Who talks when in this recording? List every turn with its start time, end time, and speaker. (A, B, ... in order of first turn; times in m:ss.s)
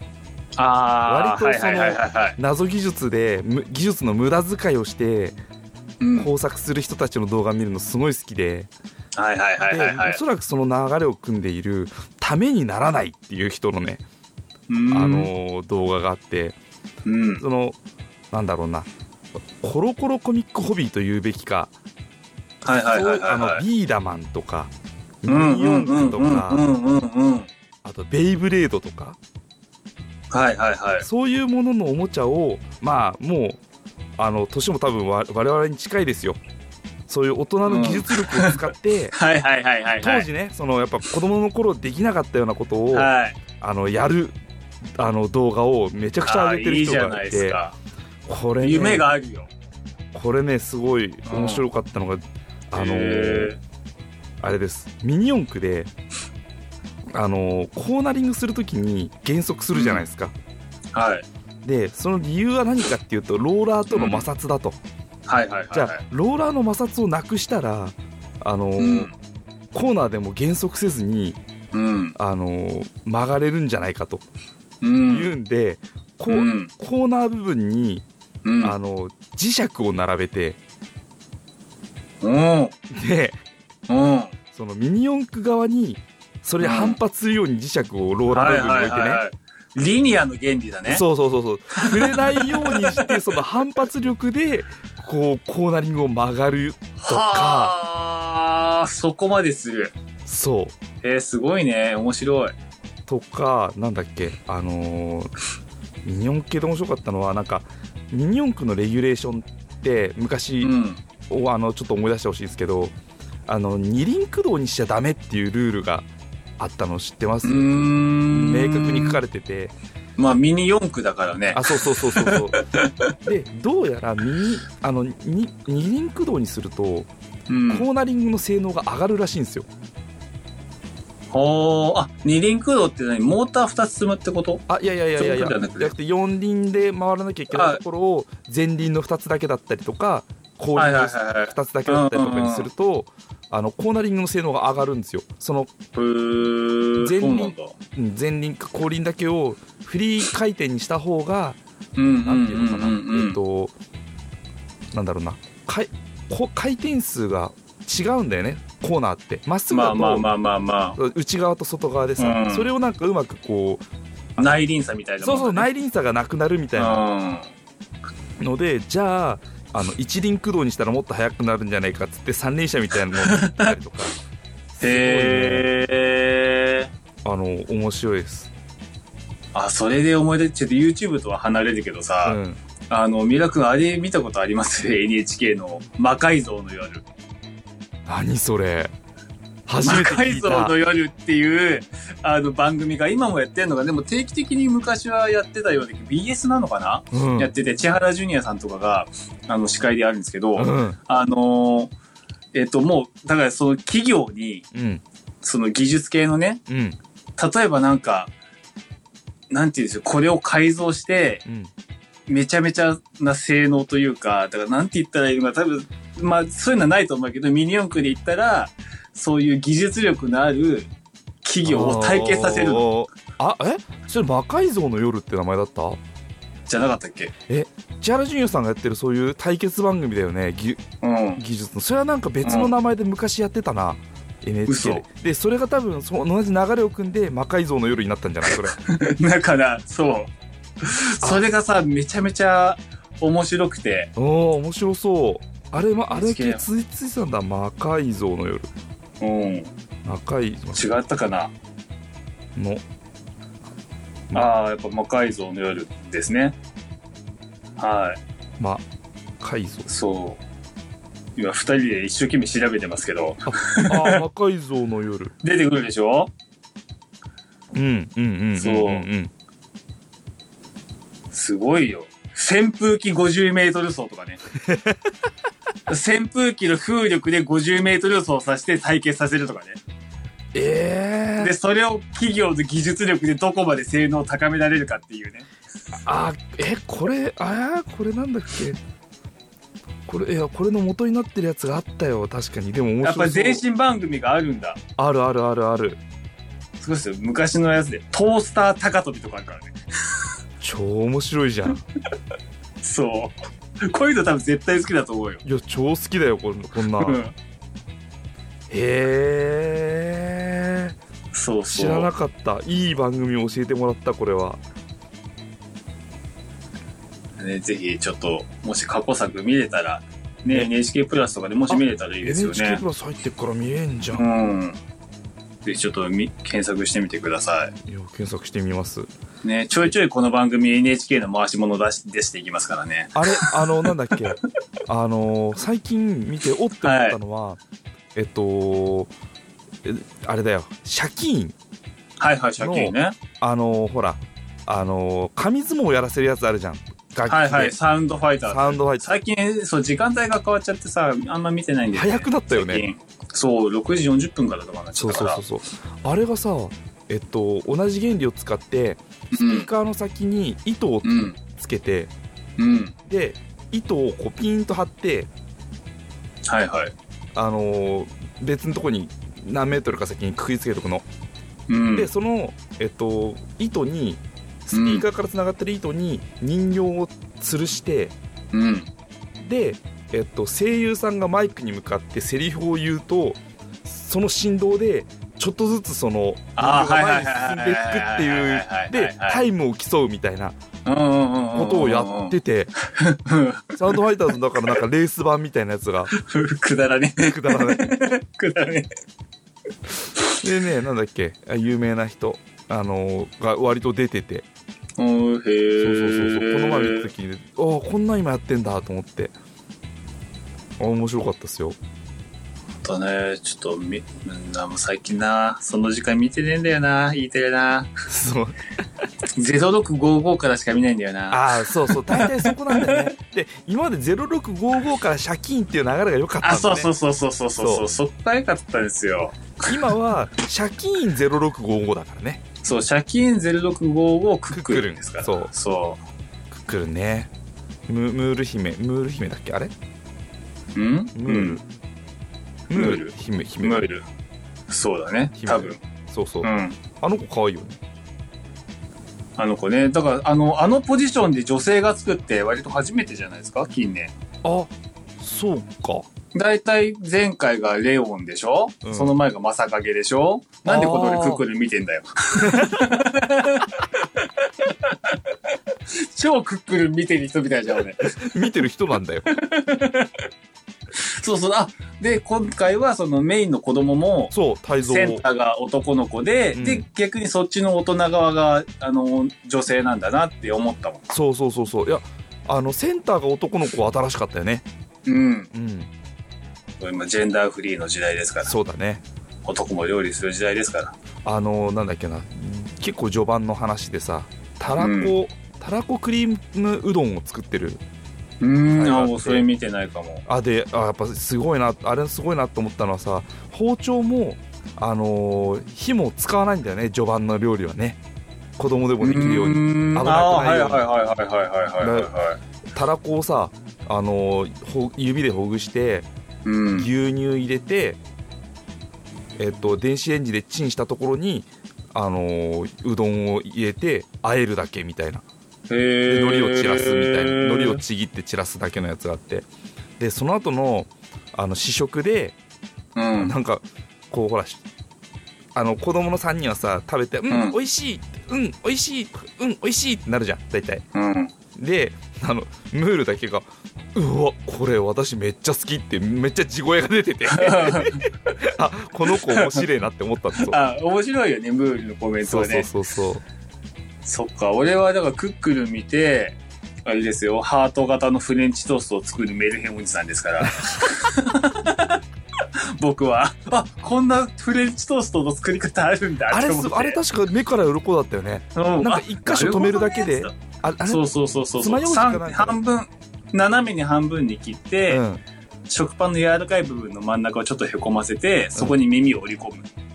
0:00.6-0:02.4 A
0:01.1-0:05.4 B
0:06.0-0:06.3 A
0:06.1-0:08.7 B
0:09.1-0:10.2 A
0:09.7-0:14.0 B
0:14.7-0:15.3 A
0:14.9-0:16.6 B
0:17.0-0:17.4 A
0:17.4-0:17.8 B
0:18.3-0:18.9 B
0:19.6-0:21.7 B
0:22.6-0:23.6 A
0:22.6-0:24.7 B
0:25.2-0:26.6 B
0:25.2-0:27.5 A
0:27.8-0:29.2 B
0:30.3-0:31.0 A
0:31.0-0:33.6 B
0:34.2-0:36.4 B
0:37.1-0:39.1 B
0:37.6-0:38.6 A
0:39.1-0:40.3 A
0:40.0-0:44.4 B
0:42.9-0:43.4 A
0:45.0-0:47.6 B
0:46.2-0:47.8 A
0:48.2-0:49.1 B
0:48.6-0:49.5 A
0:50.1-0:53.5 B
0:51.2-0:51.6 A
0:52.7-0:53.6 A
0:54.4-0:55.9 B
0:57.1-1:00.3 B
0:59.7-1:00.0 A
1:00.9-1:01.3 A
1:01.6-1:04.8 B
1:03.9-1:04.3 A
1:05.2-1:06.0 A
1:05.7-1:09.1 B
1:08.8-1:09.1 A
1:09.7-1:11.4 B
1:11.7-1:12.2 A
1:12.2-1:14.2 B
1:14.8-1:15.3 A
1:15.0-1:18.0 B
1:16.3-1:16.7 A
1:18.4-1:18.8 A
1:18.6-1:20.6 B
1:22.2-1:22.7 A
1:22.9-1:23.4 B
1:23.9-1:24.3 A
1:24.5-1:29.2 B
1:26.6-1:27.0 A
1:28.3-1:31.0 A
1:30.9-1:37.7 B
1:31.7-1:33.1 A
1:37.0-1:39.9 A
1:40.2-1:40.7 B
1:41.0-1:42.5 A
1:43.1-1:45.3 B
1:46.0-1:50.7 B
1:50.6-1:51.0 A
1:51.3-1:52.9 B
1:53.5-1:59.7 B
1:57.4-1:59.2 A
2:00.2-2:03.1 A
2:01.5-2:02.6 B
2:03.2-2:07.1 B
2:07.5-2:07.9 A
2:07.7-2:09.7 B
2:11.3-2:14.6 A
2:14.7-2:25.7 B
2:15.2-2:15.9 A
2:17.5-2:17.8 A
2:20.8-2:22.7 A
2:25.9-2:27.7 A
2:27.0-2:31.6 B
2:32.0-2:33.4 A
2:32.2-2:33.7 B
2:34.9-2:40.3 B
2:39.7-2:41.0 A
2:41.0-2:43.8 B
2:42.2-2:42.7 A
2:44.4-2:45.7 A
2:45.2-2:47.0 B
2:46.7-2:47.5 A
2:48.4-2:54.2 B
2:53.2-2:53.7 A
2:54.7-2:55.7 B
2:54.8-2:56.9 A
2:57.2-2:58.5 B
2:59.5-3:02.4 A
3:02.2-3:02.6 B
3:02.9-3:07.0 A
3:08.1-3:08.9 B
3:09.7-3:10.8 B
3:09.8-3:21.9 A
3:17.1-3:17.5 B
3:20.5-3:21.0 B
3:22.5-3:24.7 A
3:24.7-3:25.0 B
3:25.4-3:26.6 A
3:26.7-3:27.0 B
3:27.4-3:28.3 A
3:29.5-3:31.4 A
3:32.3-3:40.9 A
3:41.4-3:42.9 A
3:41.6-3:46.0 B
3:46.7-3:47.3 A
3:47.5-3:50.8 B
3:51.0-3:51.4 A
3:51.4-3:58.8 B
3:52.4-3:52.7 A
3:54.7-3:55.0 A
3:58.5-4:00.3 A
4:00.8-4:04.1 A
4:04.2-4:08.7 B
4:06.1-4:06.6 A
4:09.2-4:09.7 A
4:10.0-4:10.9 B
4:10.7-4:11.5 A
4:12.6-4:12.8 B
4:14.3-4:16.6 A
4:17.8-4:18.2 A
4:18.6-4:18.8 B
4:19.4-4:19.9 B
4:19.9-4:20.4 A
4:21.4-4:24.2 A
4:23.5-4:25.3 B
4:25.4-4:26.3 A
4:27.7-4:29.3 B
4:28.6-4:29.1 A
4:31.3-4:34.4 A
4:34.7-4:35.0 B
4:35.9-4:39.8 A
4:40.5-4:41.5 B
4:41.4-4:45.5 A
4:45.9-4:48.8 B
4:50.1-4:53.6 B
4:53.0-4:54.8 A
4:55.0-4:56.0 B
4:56.8-4:59.8 A
5:00.6-5:01.8 B
5:02.8-5:05.4 A
5:05.4-5:07.2 B
5:07.0-5:07.3 A
5:08.7-5:10.9 B
5:11.3-5:12.1 A
5:11.7-5:14.6 B
5:17.4-5:22.8 A
5:21.7-5:24.3 B
5:24.1-5:24.8 A
5:25.6-5:27.7 A
5:27.9-5:29.1 B
5:29.4-5:34.2 A
5:33.1-5:37.6 B
5:36.8-5:37.2 A
5:38.1-5:39.1 B
5:39.8-5:41.5 B
5:42.2-5:43.2 A
5:42.6-5:47.7 B
5:47.3-5:55.4 A
5:48.4-5:49.1 B
5:51.9-5:52.8 B
5:55.0-6:02.1 B
5:59.3-5:59.7 A
6:01.0-6:01.4 A
6:02.6-6:02.9 A
6:03.1-6:05.3 B
6:06.5-6:06.9 A
6:07.3-6:11.0 B
6:11.7-6:12.1 A
6:11.9-6:18.1 B
6:14.7-6:15.0 A
6:18.5-6:18.9 A
6:19.4-6:30.6 B
6:26.6-6:29.4 A
6:30.8-6:34.0 A
6:31.5-6:32.7 B
6:33.8-6:36.1 B
6:36.1-6:38.9 A
6:37.2-6:38.0 B
6:40.3-6:44.4 B
6:45.0-6:47.1 A
6:45.8-6:49.3 B
6:50.8-6:51.8 B
6:52.8-6:57.9 A
6:58.1-6:58.6 B
6:59.4-7:03.1 A
7:01.3-7:06.9 B
7:06.4-7:09.8 A
7:07.6-7:07.9 B
7:09.6-7:12.4 B
7:12.6-7:16.0 A
7:14.5-7:15.5 B
7:16.5-7:17.3 B
7:17.9-7:19.7 B
7:20.7-7:21.6 A
7:21.1-7:21.6 B
7:22.7-7:23.9 B
7:22.7-7:24.0 A
7:24.7-7:25.8 A
7:25.4-7:27.8 B
7:26.4-7:26.8 A
7:29.4-7:34.1 A
7:34.4-7:36.1 B
7:36.3-7:43.9 A
7:38.8-7:39.2 B
7:40.6-7:41.4 B
7:42.4-7:43.0 B
7:44.6-7:45.1 A
7:46.0-7:48.1 A
7:48.0-7:49.3 B
7:49.3-7:50.1 A
7:51.0-8:01.0 A
7:54.3-7:55.2 B
7:56.5-7:56.8 B
8:01.1-8:04.6 B
8:05.0-8:05.5 A
8:05.5-8:05.9 B
8:06.8-8:08.5 A
8:08.4-8:09.0 B
8:09.4-8:11.0 A
8:11.2-8:17.8 B
8:14.8-8:15.1 A
8:18.4-8:20.2 A
8:18.7-8:19.4 B
8:20.2-8:28.0 B
8:28.6-8:30.9 B
8:29.0-8:32.4 A
8:31.8-8:32.1 B
8:32.7-8:36.1 B
8:36.4-8:36.9 A
8:36.8-8:38.0 B
8:39.4-8:45.2 B
8:45.7-8:47.8 A
8:46.1-8:49.5 B
8:50.0-8:52.4 B
8:52.9-8:53.3 A
8:53.2-8:54.6 B
8:55.5-9:00.8 B
8:57.3-8:57.6 A
9:00.9-9:01.3 A
9:01.6-9:10.6 B
9:07.2-9:08.0 A
9:09.1-9:09.6 A
9:10.4-9:12.7 A
9:12.2-9:13.2 B
9:14.0-9:22.0 A
9:20.4-9:20.7 B
9:22.8-9:27.0 A
9:26.3-9:31.0 B
9:28.5-9:30.3 A
9:30.9-9:35.0 A
9:31.6-9:32.6 B
9:34.9-9:35.2 B
9:35.7-9:39.7 A